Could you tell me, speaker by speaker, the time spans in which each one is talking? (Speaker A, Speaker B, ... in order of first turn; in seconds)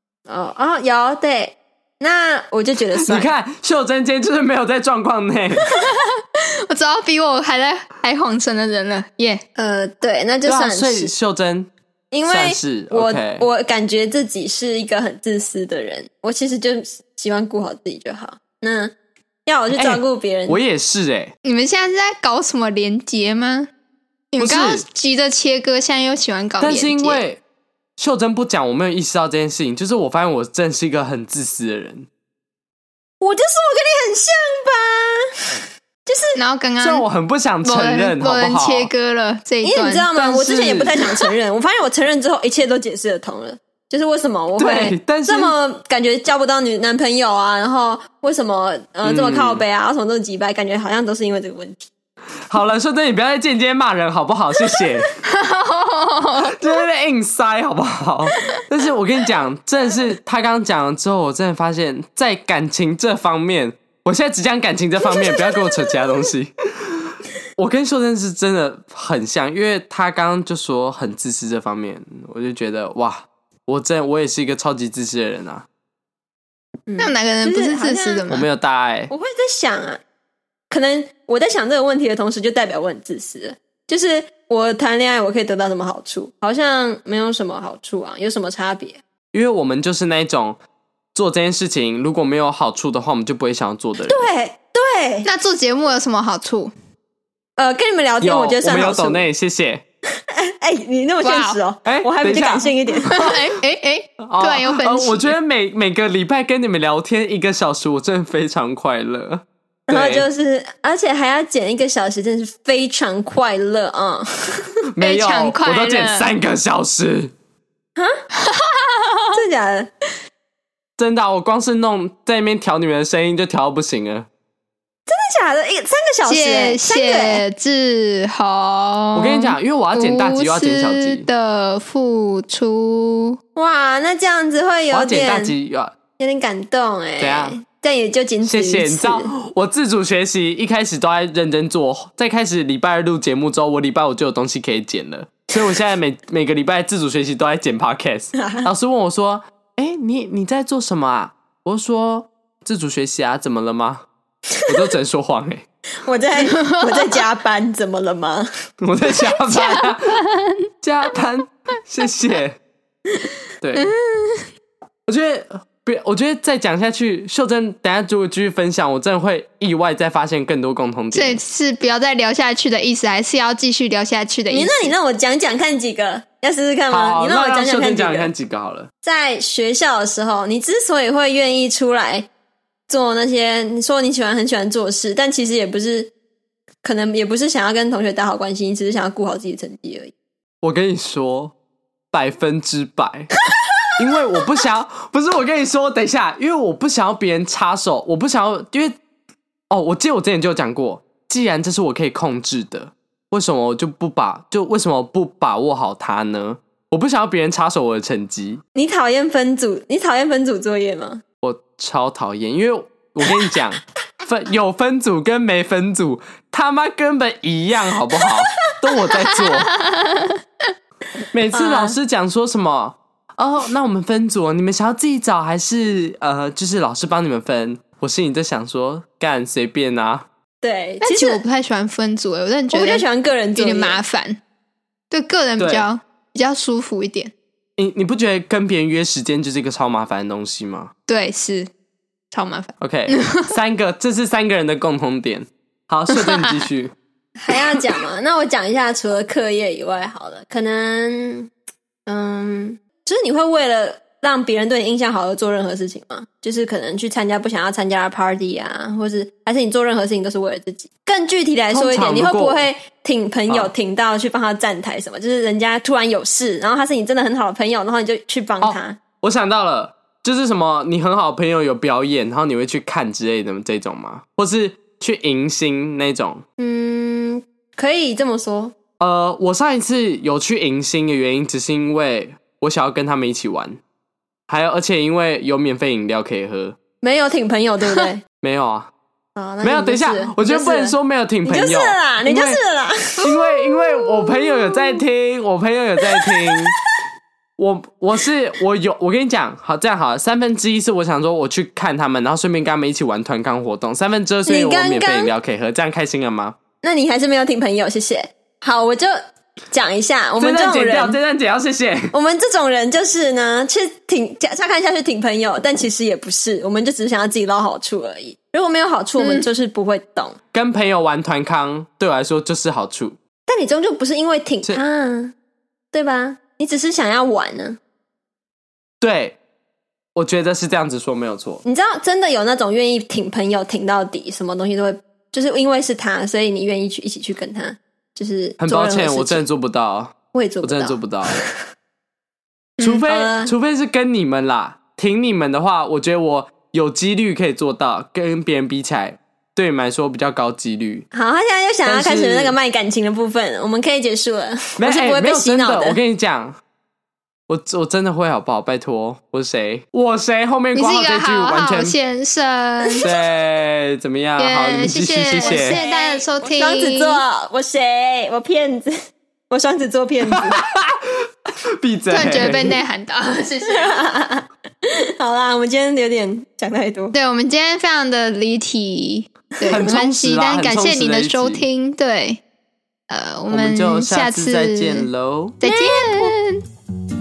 Speaker A: 0.3-3.3, 9.6-11.1, 12.1-18.9, 19.4-20.6, 33.2-36.4, 39.6-51.9, 76.9-78.3, 79.1-80.0, 80.7-89.0, 94.1-95.3, 97.6-99.3, 100.3-103.2, 109.9-114.7, 118.0-118.2, 119.3-119.9, 125.1-127.4, 133.5-135.5, 136.2-139.3, 148.3-148.7, 156.0-158.5, 174.5-178.3, 179.0-182.3, 182.9-186.1, 186.8-190.1, 208.7-211.2, 221.5-221.9, 230.6-231.4, 232.7-234.0, 247.4-251.5, 252.1-269.0, 276.6-278.8, 287.0-288.2, 289.4-293.7, 296.2-296.9, 304.4-305.3, 306.8-309.1, 309.7-311.2, 312.1-320.4, 323.5-325.3, 325.9-327.8, 331.6-339.4, 340.3-341.6, 343.0-343.5, 351.1-356.0, 365.4-369.0, 369.5-370.6, 373.7-377.1, 379.6-380.0, 385.6-386.4
Speaker B: 3.1-5.7, 10.4-11.7, 12.2-13.5, 19.7-21.3, 24.4-24.8, 26.6-27.4, 28.0-32.1, 36.8-38.9, 40.1-41.0, 44.6-45.5, 49.0-49.6, 52.5-55.1, 56.5-75.7, 78.3-79.1, 89.3-90.6, 91.1-94.3, 98.2-99.8, 101.8-103.4, 104.2-110.2, 114.9-117.3, 121.0-124.3, 129.1-131.3, 134.9-135.9, 137.2-137.6, 138.4-154.0, 154.6-155.6, 158.8-160.2, 160.8-162.6, 163.6-163.9, 165.1-171.4, 176.9-178.9, 190.6-191.5, 192.1-193.3, 193.9-198.9, 199.7-208.6, 211.4-219.7, 221.3-230.3, 235.6-235.9, 237.8-240.9, 242.8-246.9, 261.7-262.7, 268.6-276.4, 279.0-283.8, 284.5-286.8, 288.4-288.9, 289.6-292.6, 293.2-296.8, 297.6-306.6, 310.4-312.1, 320.5-323.2, 329.0-329.4, 330.1-331.6, 338.6-341.4, 342.8-351.1, 351.8-352.6, 354.8-356.6, 357.5-361.9, 363.0-365.8, 370.3-371.2, 371.8-372.8, 379.7-381.6, 383.5-385.6
Speaker C: 5.7-9.4, 21.4-23.7, 24.3-27.2, 36.3-37.0, 37.6-40.2, 55.2-56.6, 77.0-78.5, 95.2-96.7, 101.2-101.6, 103.1-105.3, 115.0-116.3, 118.3-119.4, 126.2-133.4, 156.4-157.2, 159.3-160.6, 163.8-164.5, 171.1-174.9, 219.4-220.4, 231.0-234.4, 235.1-237.3, 241.1-241.7, 242.3-243.5, 319.2-319.5, 342.8-343.0, 360.7-363.0, 364.4-367.2, 372.1-374.0, 377.1-382.4, 383.1-385.1, 385.6-386.6